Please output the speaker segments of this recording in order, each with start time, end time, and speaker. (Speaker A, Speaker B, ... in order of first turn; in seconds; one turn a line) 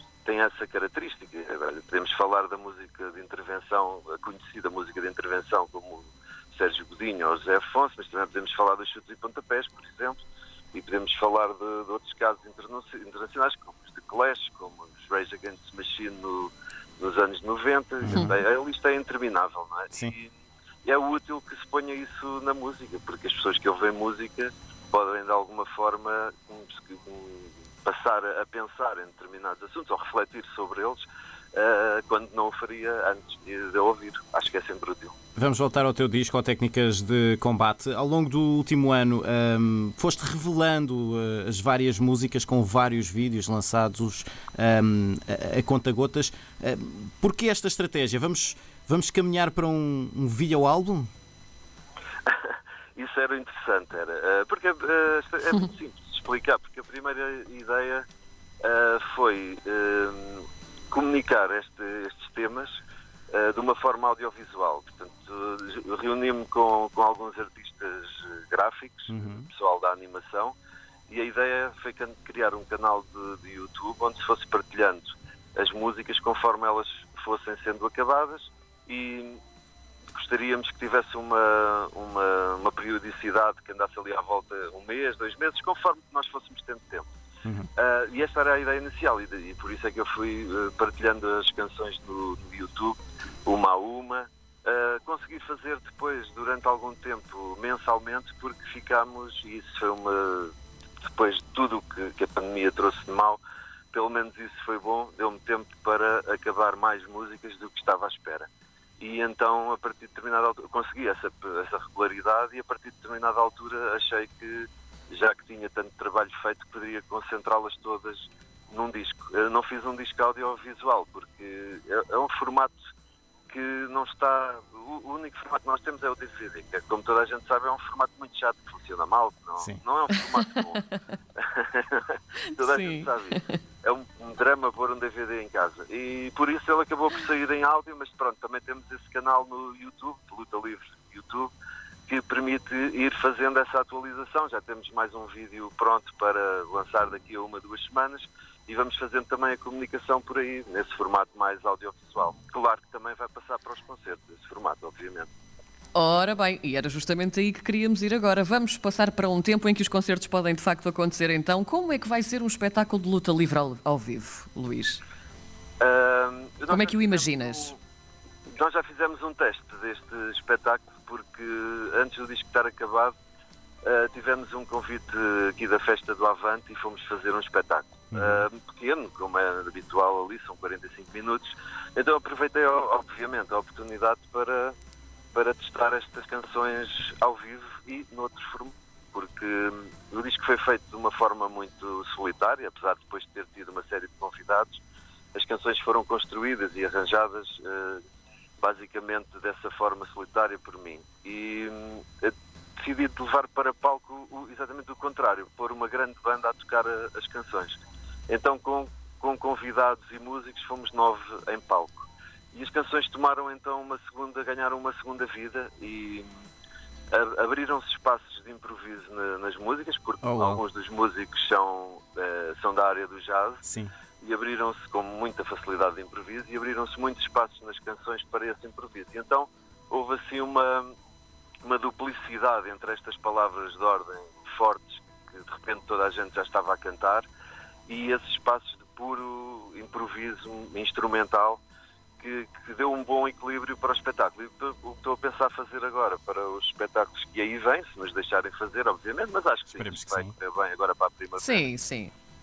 Speaker A: 0.2-35.1
Speaker B: 18.0-18.4
Speaker B: 35.4-51.1
Speaker A: 52.3-58.0
Speaker A: 58.6-62.8
Speaker A: 63.3-70.5
Speaker B: 69.1-69.5
Speaker A: 71.1-79.4
Speaker A: 80.2-87.1
Speaker A: 87.8-103.4
Speaker A: 103.9-122.8
Speaker A: 123.5-130.8
Speaker A: 131.4-141.5
Speaker C: 132.6-133.6
Speaker A: 142.1-155.3
Speaker C: 155.9-165.0
Speaker A: 165.8-167.8
Speaker C: 166.7-167.7
Speaker A: 168.5-173.2
Speaker A: 173.8-184.7
Speaker B: 178.1-178.5
Speaker A: 185.3-194.8
Speaker A: 195.3-198.0
Speaker A: 198.6-216.3
Speaker A: 217.1-223.6
Speaker B: 220.2-220.6
Speaker B: 223.6-223.9
Speaker A: 224.2-230.9
Speaker A: 231.6-237.3
Speaker A: 237.9-241.6
Speaker A: 242.2-251.7
Speaker B: 249.7-250.3
Speaker C: 251.4-252.1